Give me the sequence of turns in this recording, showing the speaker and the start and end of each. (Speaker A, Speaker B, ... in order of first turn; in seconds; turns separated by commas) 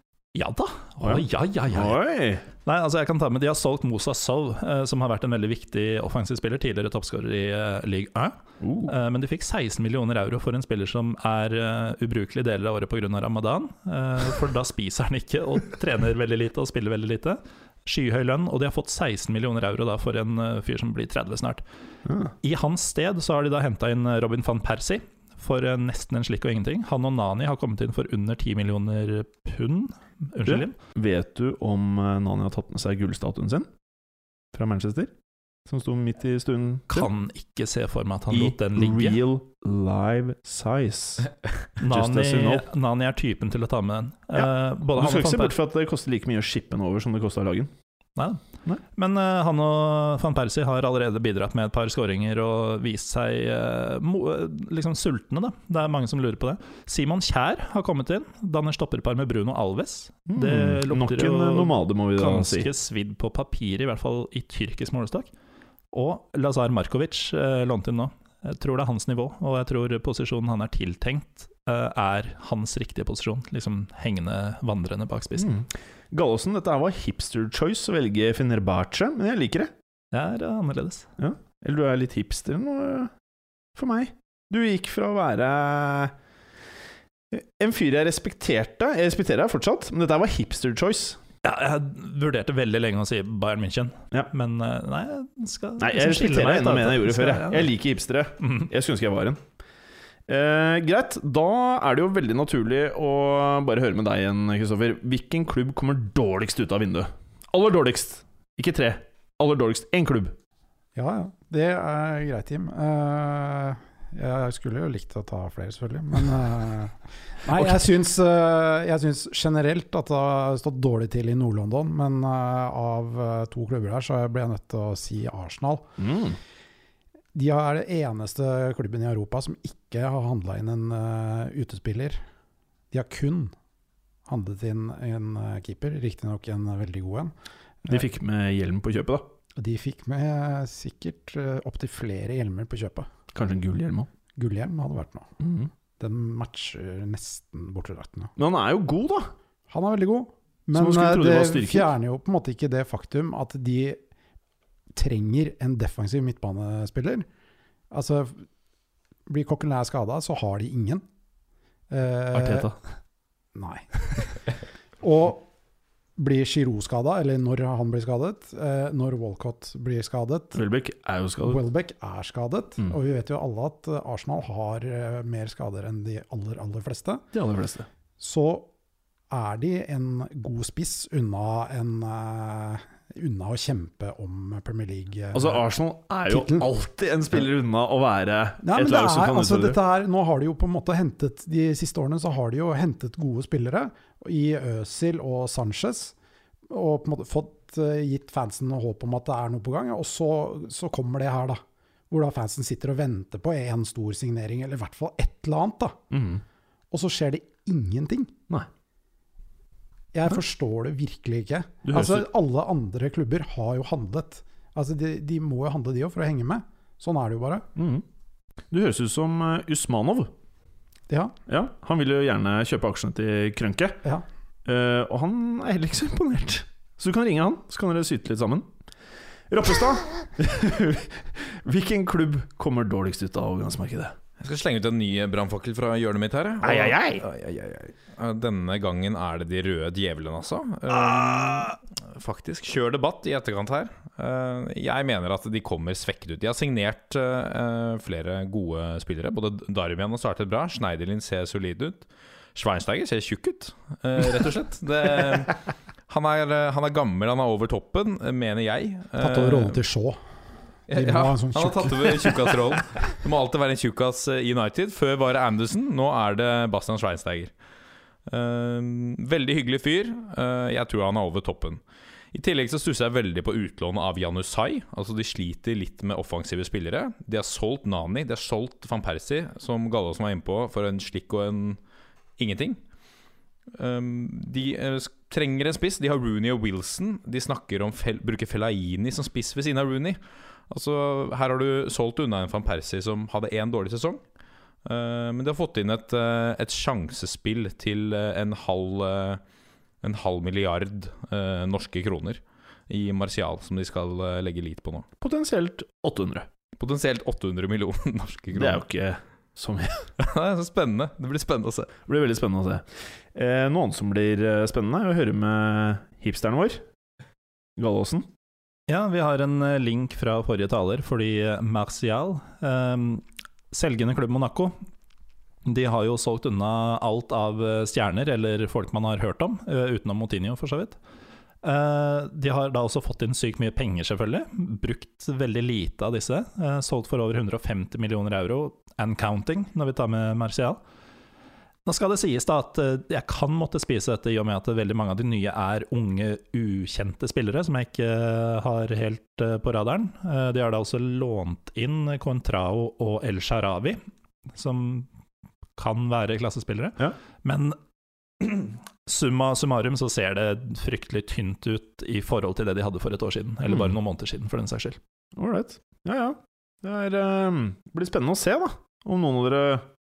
Speaker A: 0.3-2.0, Speaker B: 1.0-2.5, Speaker A: 2.6-21.6, Speaker B: 8.6-8.9, Speaker B: 22.1-22.3, Speaker A: 22.4-30.8, Speaker B: 30.4-33.7, Speaker B: 34.5-35.1, Speaker B: 35.6-37.1, Speaker A: 36.9-39.2, Speaker B: 38.3-41.3, Speaker A: 41.8-45.5, Speaker B: 41.8-42.7, Speaker B: 44.3-47.7, Speaker A: 48.1-48.4, Speaker A: 48.9-65.3, Speaker B: 60.3-62.7, Speaker A: 65.9-75.5, Speaker B: 75.4-79.7, Speaker A: 80.1-81.1, Speaker B: 81.2-83.1, Speaker B: 83.8-86.1, Speaker B: 87.3-91.2, Speaker A: 91.4-97.7, Speaker B: 95.8-99.4, Speaker A: 98.4-98.7, Speaker B: 100.3-110.3, Speaker C: 111.0-125.9, Speaker B: 117.5-117.8, Speaker B: 126.0-126.4, Speaker C: 127.3-132.2, Speaker C: 132.9-133.5, Speaker C: 134.3-137.3, Speaker B: 137.9-139.2, Speaker C: 139.6-143.1, Speaker B: 143.3-144.1, Speaker C: 144.3-145.3, Speaker B: 145.4-145.7, Speaker C: 146.0-148.3, Speaker B: 148.4-149.3, Speaker C: 149.7-154.0, Speaker B: 150.7-151.9, Speaker C: 154.9-157.3, Speaker C: 157.9-158.4, Speaker C: 159.3-161.0, Speaker C: 161.9-162.7, Speaker B: 162.3-162.8, Speaker C: 163.6-164.2, Speaker C: 165.0-165.5, Speaker C: 166.2-170.6, Speaker B: 170.5-171.6, Speaker C: 171.4-177.2, Speaker B: 177.3-177.9, Speaker C: 178.2-178.7, Speaker C: 179.3-185.6, Speaker B: 185.3-189.8, Speaker C: 186.3-186.7, Speaker C: 188.6-196.1, Speaker C: 196.7-206.0, Speaker B: 206.1-206.4, Speaker C: 206.9-208.3, Speaker C: 210.1-217.7, Speaker B: 211.8-212.3, Speaker B: 217.8-218.0, Speaker B: 218.7-220.3, Speaker C: 221.1-221.3, Speaker B: 221.5-224.0, Speaker B: 224.6-228.7, Speaker B: 229.5-234.2, Speaker D: 234.4-259.8, Speaker B: 236.6-237.2, Speaker B: 241.2-241.6, Speaker C: 259.2-260.2, Speaker D: 260.9-267.5, Speaker C: 260.9-262.8, Speaker D: 268.3-271.8, Speaker D: 272.3-281.8, Speaker D: 282.4-282.8, Speaker D: 283.7-290.2, Speaker D: 290.7-294.2, Speaker D: 294.8-299.4, Speaker D: 300.0-305.1, Speaker B: 305.2-306.5, Speaker D: 306.8-308.8, Speaker B: 308.5-310.1, Speaker D: 310.2-312.0, Speaker B: 312.1-316.8, Speaker B: 317.8-318.3, Speaker A: 318.9-324.7, Speaker A: 325.6-331.0, Speaker A: 331.6-340.8, Speaker A: 341.8-354.0, Speaker A: 354.5-355.1, Speaker A: 355.8-357.8, Speaker A: 358.4-365.0, Speaker B: 365.3-369.9